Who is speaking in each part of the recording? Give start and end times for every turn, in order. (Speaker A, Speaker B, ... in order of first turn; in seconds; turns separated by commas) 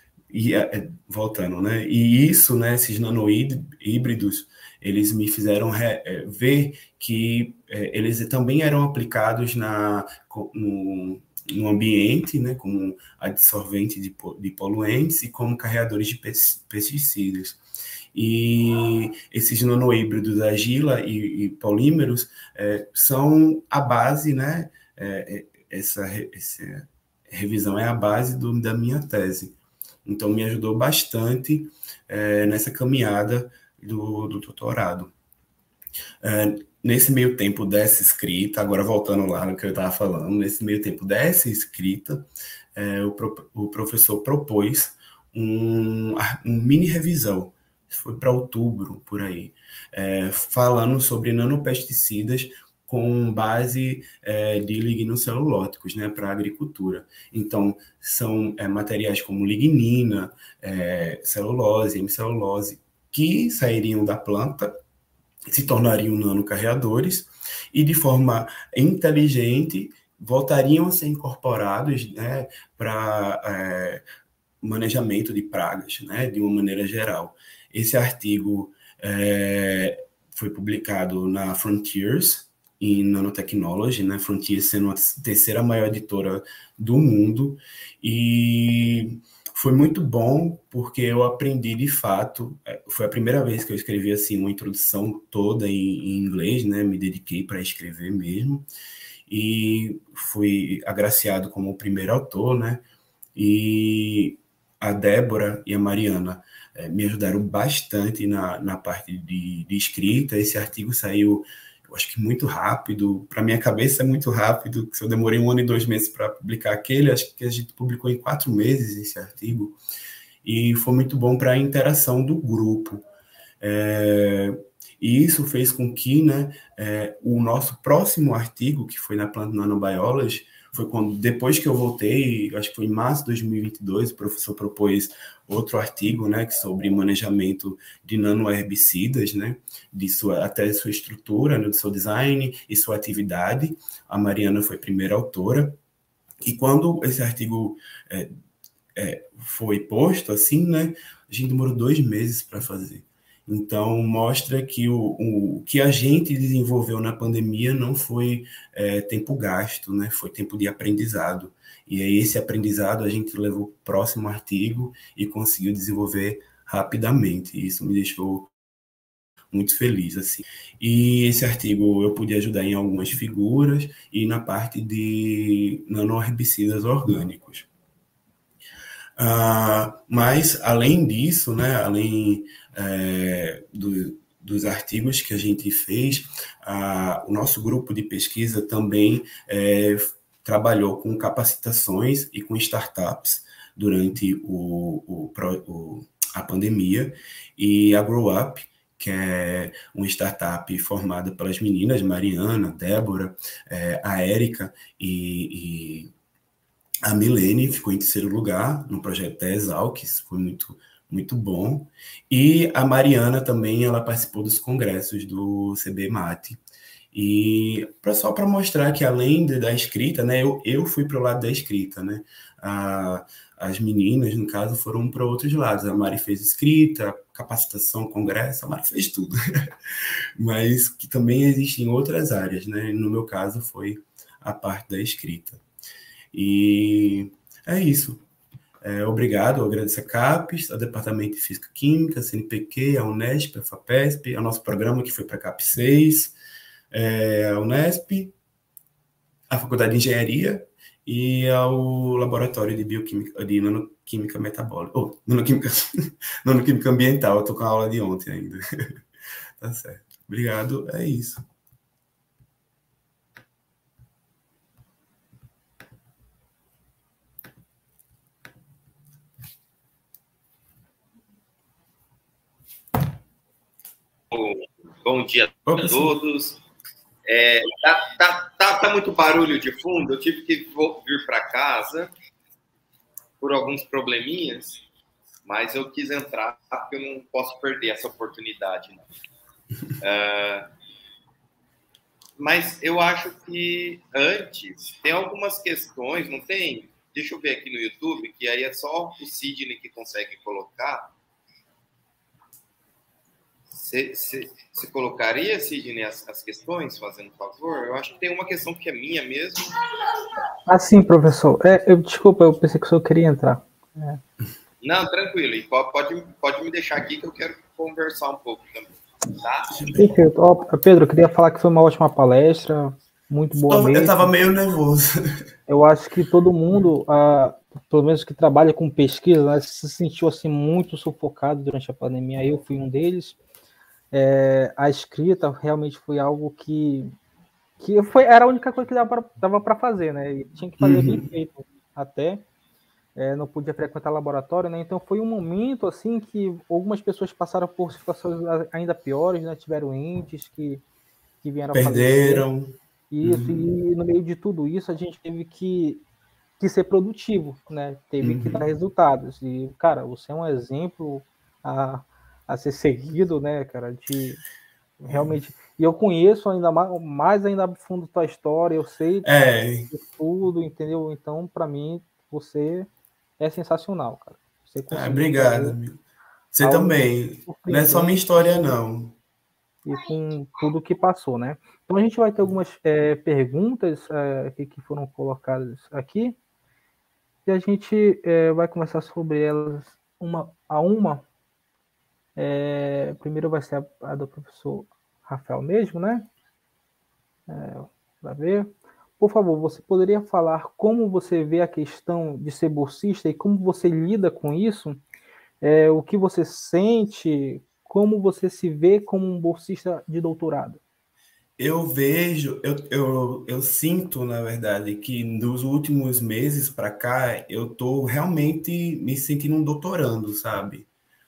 Speaker A: 0.3-17.6, Speaker A: 18.1-35.1, Speaker A: 36.2-64.8, Speaker A: 65.5-74.0, Speaker A: 74.6-98.7, Speaker A: 99.3-102.8, Speaker A: 103.3-119.8, Speaker A: 120.4-123.0, Speaker A: 123.6-145.8, Speaker A: 146.4-148.3, Speaker A: 149.0-168.5, Speaker A: 169.5-177.7, Speaker A: 179.2-206.1, Speaker A: 207.1-216.6, Speaker A: 217.1-235.6, Speaker A: 236.3-238.2, Speaker A: 238.8-246.3, Speaker A: 246.9-248.3, Speaker A: 249.5-259.0, Speaker A: 259.6-261.4, Speaker B: 274.3-276.6, Speaker A: 275.7-276.2, Speaker B: 277.3-282.1, Speaker B: 283.4-284.8, Speaker B: 285.5-289.1, Speaker B: 290.0-290.7, Speaker B: 292.4-301.1, Speaker B: 303.7-309.8, Speaker C: 310.7-314.2, Speaker B: 314.8-319.8, Speaker A: 319.7-320.1, Speaker C: 319.9-324.3, Speaker A: 323.6-325.1, Speaker C: 325.7-333.4, Speaker C: 334.1-337.1, Speaker C: 337.8-342.4, Speaker A: 340.8-341.3, Speaker C: 343.2-350.8, Speaker C: 351.4-352.5, Speaker A: 351.7-353.7, Speaker C: 353.1-356.0, Speaker C: 356.6-364.4, Speaker A: 358.2-358.7, Speaker C: 365.0-369.3, Speaker A: 365.1-365.4, Speaker A: 369.2-369.9, Speaker C: 369.9-372.9, Speaker C: 373.4-375.8, Speaker A: 374.9-376.0, Speaker A: 376.5-379.2, Speaker C: 376.6-378.1, Speaker C: 379.9-386.4, Speaker C: 387.5-391.2, Speaker C: 392.4-396.3, Speaker C: 397.5-405.0, Speaker C: 405.6-410.8, Speaker A: 411.6-420.9